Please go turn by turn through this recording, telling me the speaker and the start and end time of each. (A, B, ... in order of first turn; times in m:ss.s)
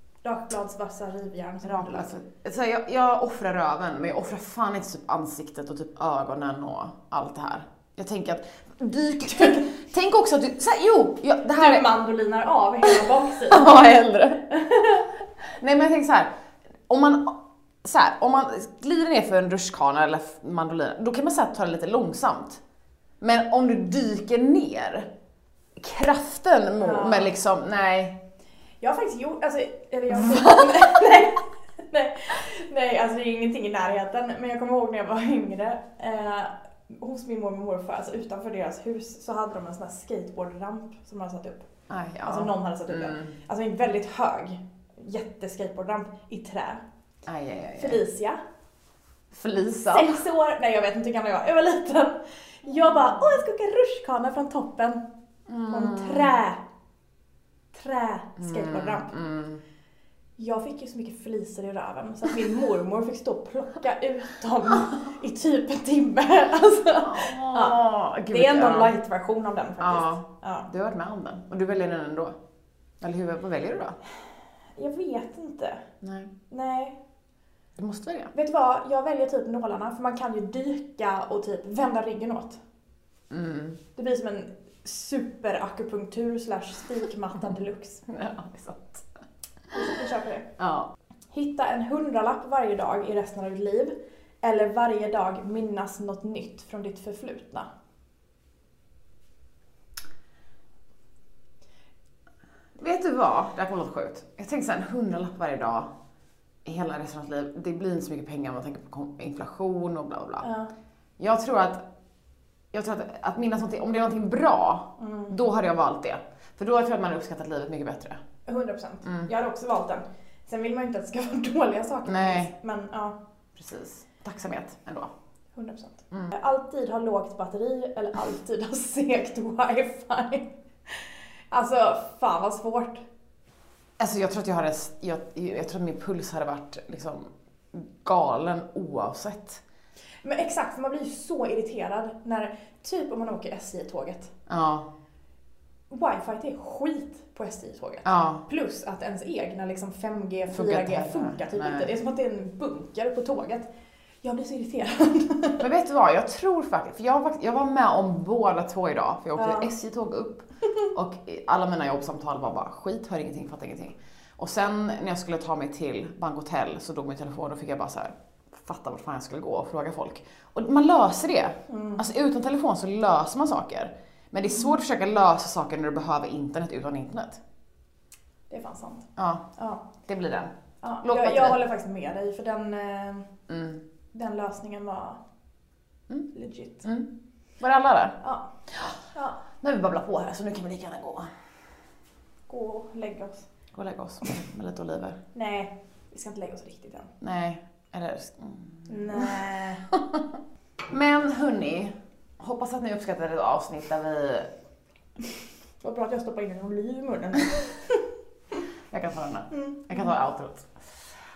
0:00.2-0:02.1 A
0:01.6-0:11.9 B
0:11.6-0:13.8 A
0:12.8-0:14.4 B
0:14.5-0:15.1 A
0:15.5-0:16.3 B
0:16.9-0:22.6 B
0:23.2-0:25.1 B
0:25.8-0:28.2 B
0:26.8-0:27.3 A
0:28.8-0:41.7 A
0:30.2-0:30.8 B
0:41.9-0:43.3 B
0:42.2-0:46.8 A
0:47.2-0:48.0 B
0:47.8-0:48.4 A
0:49.3-0:50.2 B
0:49.8-0:55.0 A
0:55.5-0:56.4 B
0:55.7-0:56.6 A
0:57.7-0:59.1 A
0:58.4-0:59.6 B
1:00.4-1:10.7 A
1:07.0-1:08.9 B
1:09.8-1:12.4 B
1:13.0-1:14.0 B
1:14.8-1:15.8 A
1:16.0-1:16.3 B
1:16.5-1:17.0 A
1:17.8-1:18.3 B
1:18.3-1:22.6 A
1:23.3-1:23.8 B
1:23.9-1:28.0 A
1:28.1-1:29.1 B
1:29.7-1:30.6 A
1:30.6-1:30.9 B
1:31.3-1:37.7 A
1:42.8-1:45.9 B
1:46.6-1:50.5 B
1:50.4-1:50.7 A
1:51.2-1:51.8 B
1:52.7-1:58.2 B
1:55.0-1:55.3 A
1:58.5-2:03.2 A
2:02.0-2:02.5 B
2:03.5-2:05.1 B
2:05.6-2:13.0 A
2:14.0-2:19.6 B
2:20.2-2:24.3 A
2:24.5-2:24.9 B
2:25.9-2:33.7 A
2:28.0-2:28.4 B
2:30.5-2:31.9 B
2:34.2-2:35.6 A
2:35.6-2:57.4 B
2:39.4-2:39.7 A
2:51.7-2:52.0 A
2:58.5-2:59.8 A
2:59.2-2:59.5 B
3:00.1-3:01.6 B
3:00.8-3:03.3 A
3:03.5-3:03.8 B
3:04.1-3:05.2 A
3:06.3-3:06.9 A
3:07.6-3:08.2 B
3:08.2-3:08.5 A
3:08.7-3:09.0 B
3:09.1-3:09.4 A
3:09.5-3:11.3 B
3:12.5-3:13.4 A
3:13.7-3:15.2 B
3:15.3-3:17.1 A
3:17.2-3:24.5 B
3:18.9-3:19.8 A
3:25.8-3:28.0 A
3:28.9-3:31.0 B
3:29.5-3:29.9 A